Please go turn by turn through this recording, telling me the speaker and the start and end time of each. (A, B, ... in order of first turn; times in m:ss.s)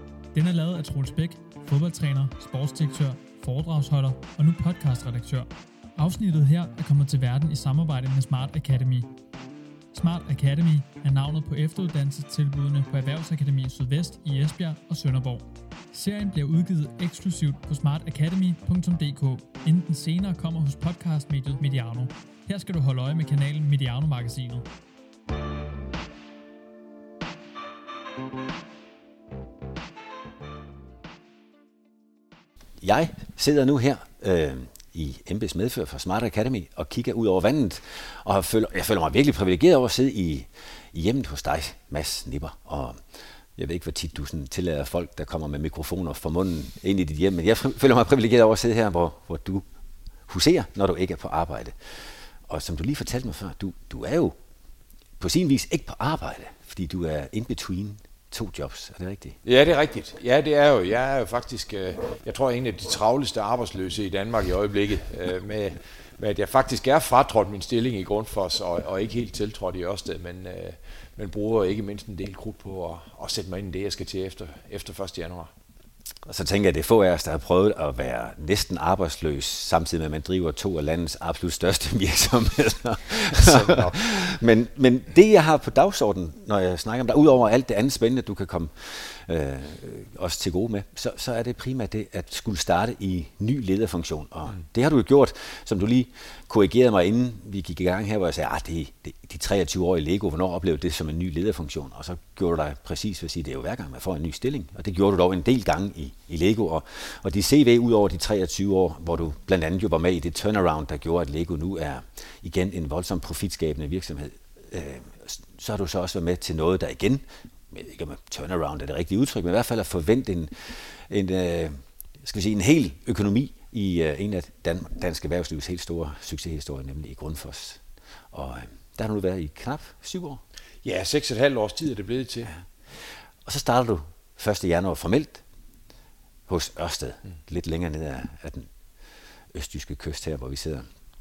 0:00.3-0:09.1 A
0:09.9-0:24.7 A
0:32.8-0:43.0 B
0:43.6-0:49.6 B
0:50.3-0:51.8 B
0:52.5-0:54.4 B
0:55.2-0:59.4 B
0:59.4-1:15.5 C
1:16.3-2:00.5 B
1:23.3-1:24.0 C
2:01.1-2:07.8 B
2:08.3-2:10.4 B
2:10.8-2:12.5 C
2:13.4-2:15.4 B
2:16.5-2:18.7 B
2:19.5-2:20.8 B